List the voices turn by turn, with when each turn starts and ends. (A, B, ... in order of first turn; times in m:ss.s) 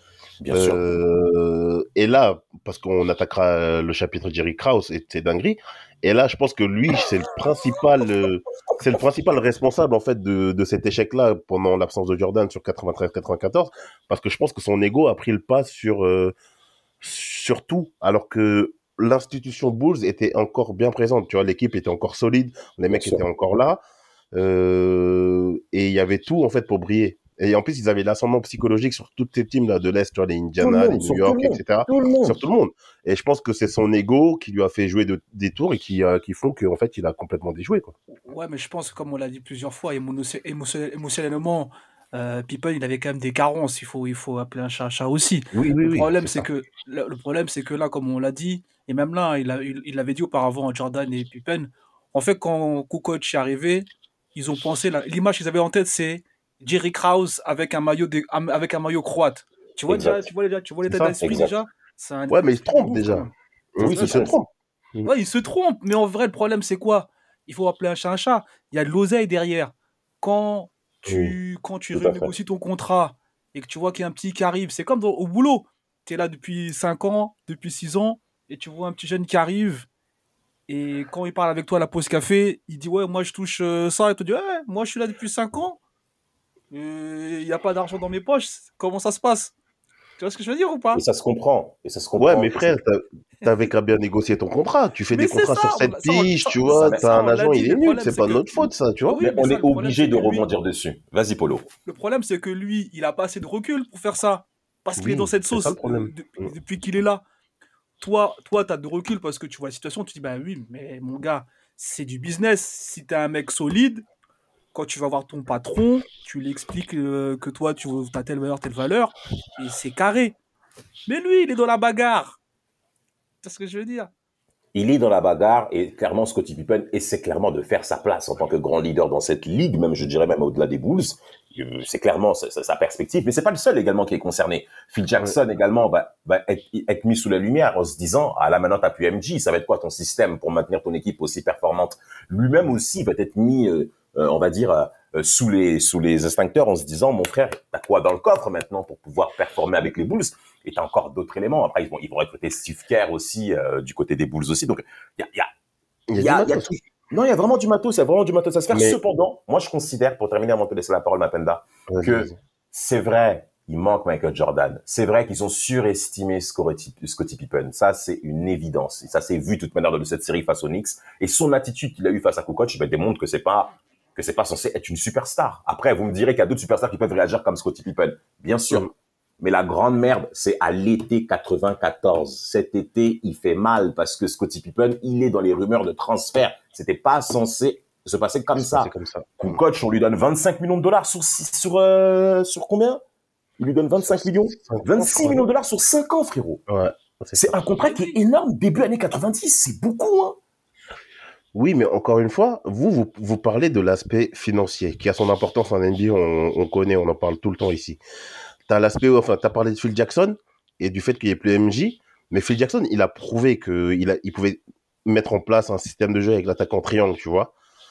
0:00.4-0:00.8 A
0:00.5-0:16.3 B
0:17.0-0:23.8 B
0:22.9-0:23.2 A
0:24.3-0:37.9 B
0:30.6-0:32.4 A
0:38.3-1:04.4 C
0:45.6-0:46.4 B
0:59.9-1:00.2 A
1:00.8-1:01.4 B
1:01.2-1:01.5 A
1:02.3-1:05.1 B
1:03.8-1:04.3 A
1:05.0-1:19.8 C
1:11.1-1:11.3 A
1:11.9-1:12.3 A
1:20.7-1:25.8 C
1:26.7-1:29.5 C
1:30.2-1:31.0 C
1:30.9-1:32.8 A
1:32.2-1:39.2 B
1:35.1-1:38.5 C
1:36.7-1:37.0 A
1:39.1-1:40.5 C
1:39.2-1:41.7 A
1:41.8-1:47.2 C
1:45.0-1:46.5 B
1:48.0-1:54.0 C
1:54.7-2:00.3 C
2:01.1-2:02.4 C
2:03.4-2:04.1 C
2:04.7-2:35.5 A
2:36.1-2:36.7 B
2:36.2-3:13.0 A
2:38.7-2:39.0 B
2:41.9-2:42.4 B
3:08.5-3:09.6 B
3:13.6-3:16.6 A
3:14.1-3:15.4 B
3:16.7-3:17.6 B
3:17.3-3:20.4 A
3:17.8-3:18.1 C
3:21.5-3:28.0 B
3:28.7-3:37.5 B